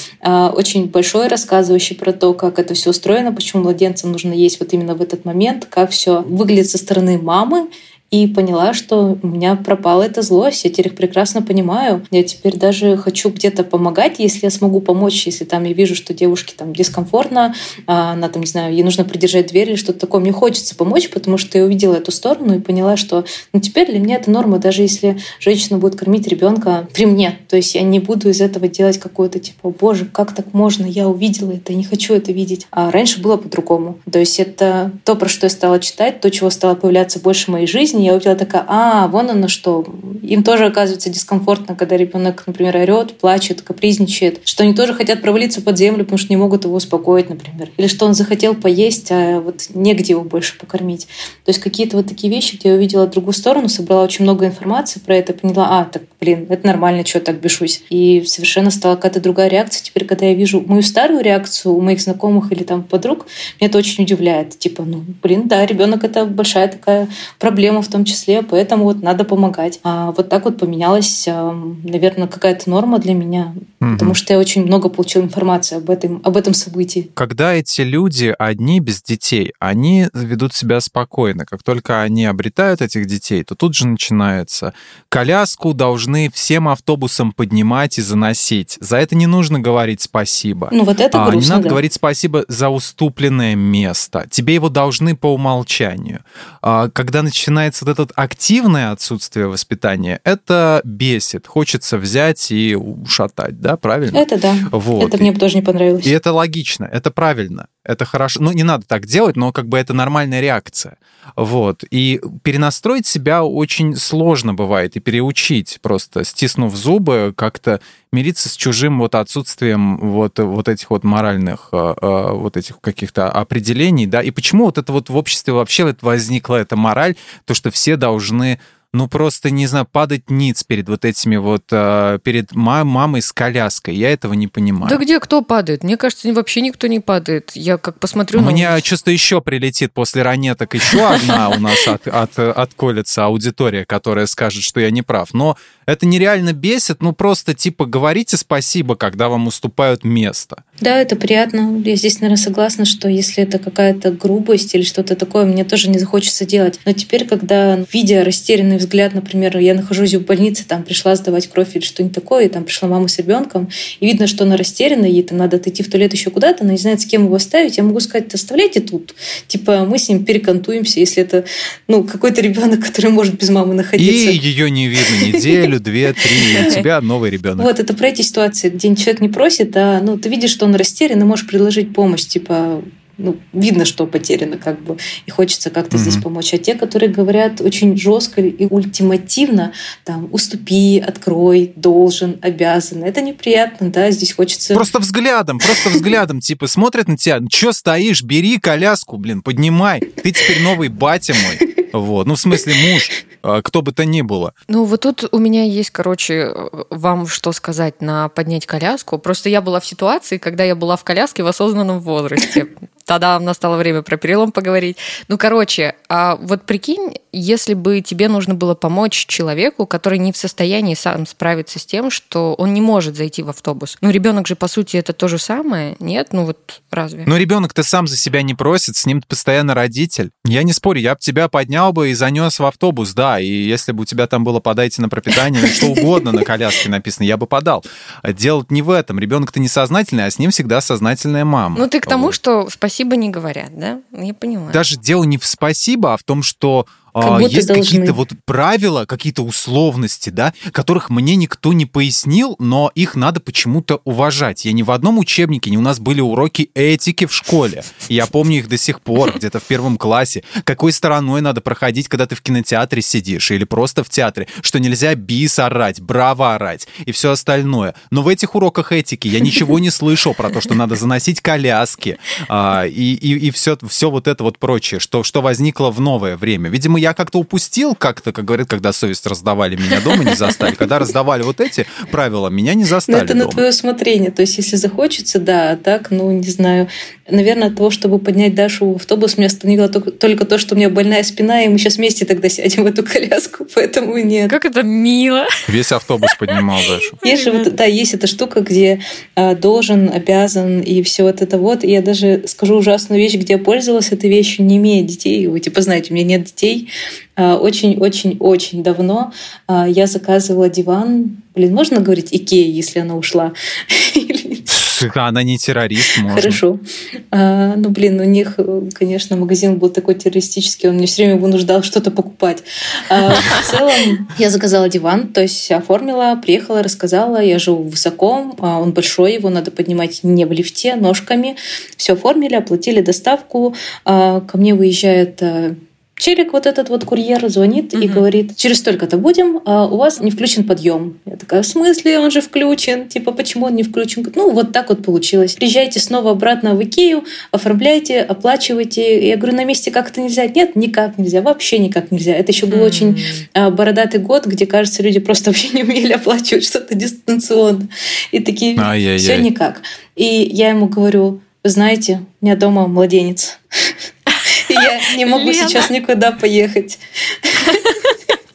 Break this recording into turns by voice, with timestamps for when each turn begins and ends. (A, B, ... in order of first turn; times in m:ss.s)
0:00.2-1:17.1 A
1:13.8-1:14.2 B
1:17.2-1:45.3 B
1:30.7-1:31.8 A
1:44.1-1:46.1 A
1:46.0-2:15.0 B
2:14.8-2:18.8 C
2:18.3-2:30.6 B
2:21.0-2:21.6 C
2:30.8-2:54.4 A
2:54.0-2:57.7 B
2:55.0-2:55.5 A
2:56.4-2:56.7 A
2:57.6-3:14.8 A
3:05.9-3:06.2 B
3:14.7-3:24.5 B
3:24.7-3:47.3 C
3:47.2-4:02.3 B
4:01.8-4:04.8 C
4:04.7-4:43.6 B
4:07.2-4:08.2 A
4:43.1-4:54.5 A
4:54.5-4:55.5 C
4:55.7-4:57.2 B
4:57.2-4:57.7 C
4:57.2-5:14.6 A
5:14.7-5:16.6 B
5:16.2-6:03.9 A
5:23.4-5:23.6 C
5:38.0-5:38.2 C
5:52.7-5:53.4 C
5:58.8-5:59.5 B
6:04.5-6:07.8 A
6:05.2-6:05.9 C
6:07.6-6:08.1 C